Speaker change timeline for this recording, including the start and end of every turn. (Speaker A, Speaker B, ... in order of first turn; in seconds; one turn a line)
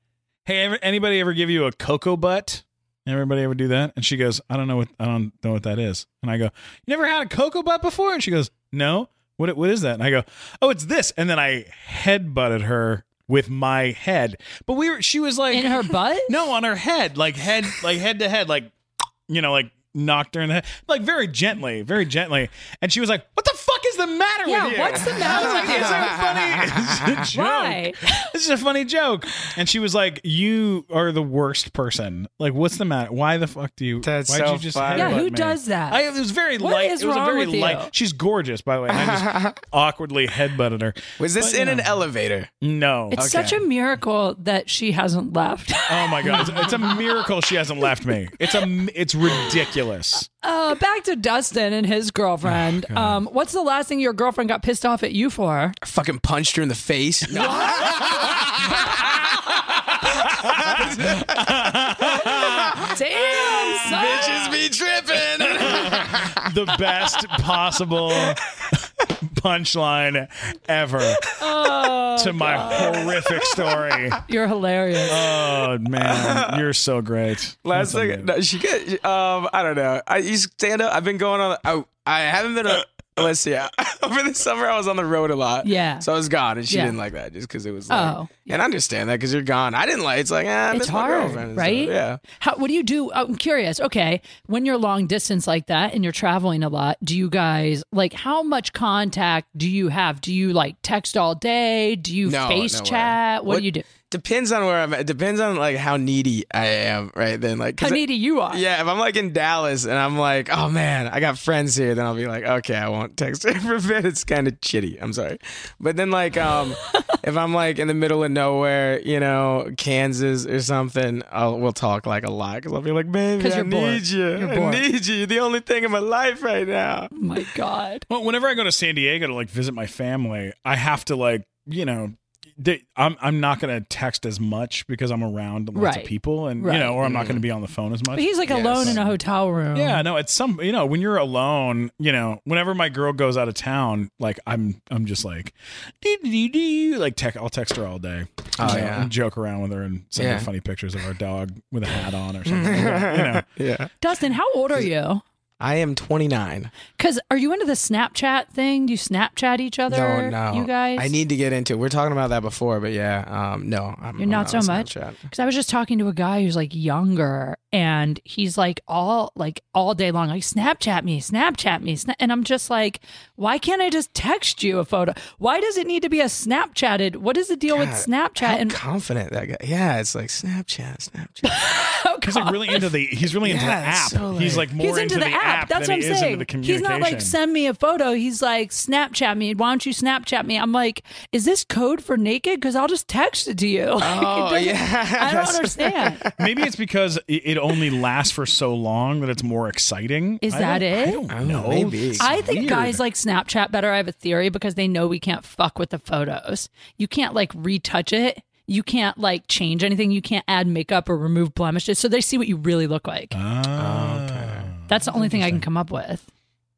Speaker A: 0.4-18.7
Speaker B: 15.5-16.3
Speaker A: 19.3-41.9
Speaker B: 24.4-26.2
Speaker C: 24.7-27.2
Speaker B: 27.3-28.3
Speaker C: 34.0-35.2
Speaker B: 34.9-36.0
Speaker B: 36.6-37.9
Speaker C: 38.9-39.5
Speaker C: 41.2-42.5
Speaker A: 42.6-43.3
Speaker B: 43.1-47.2
Speaker C: 43.1-43.6
Speaker A: 45.9-50.3
Speaker B: 50.4-55.8
Speaker A: 52.5-53.2
Speaker C: 55.8-66.5
Speaker B: 57.3-58.0
Speaker A: 57.4-59.1
Speaker A: 59.9-62.8
Speaker B: 62.7-64.4
Speaker A: 63.4-64.5
Speaker A: 65.3-68.5
Speaker A: 69.3-71.3
Speaker B: 71.4-73.1
Speaker A: 72.2-74.2
Speaker C: 72.7-74.1
Speaker B: 74.2-75.2
Speaker A: 75.1-78.3
Speaker C: 75.4-76.6
Speaker C: 77.6-92.2
Speaker B: 85.6-86.0
Speaker B: 86.7-87.0
Speaker B: 87.9-88.5
Speaker B: 90.7-103.8
Speaker C: 102.2-127.1
Speaker B: 107.8-108.6
Speaker B: 123.4-124.8
Speaker B: 127.1-128.1
Speaker A: 128.1-139.1
Speaker B: 135.7-136.9
Speaker C: 137.0-137.4
Speaker B: 138.1-140.0
Speaker C: 138.5-139.0
Speaker A: 139.7-153.5
Speaker C: 148.6-149.1
Speaker C: 150.2-150.5
Speaker C: 152.5-153.9
Speaker B: 154.0-155.2
Speaker C: 155.6-156.7
Speaker B: 157.0-161.1
Speaker C: 159.9-165.2
Speaker B: 164.2-178.8
Speaker C: 177.7-181.6
Speaker B: 181.4-182.9
Speaker A: 182.2-187.3
Speaker C: 183.4-184.7
Speaker B: 184.8-196.2
Speaker C: 194.0-196.5
Speaker A: 196.4-203.0
Speaker B: 200.4-201.2
Speaker C: 201.3-202.3
Speaker B: 202.2-213.3
Speaker A: 213.3-215.6
Speaker C: 213.8-214.7
Speaker B: 214.9-216.2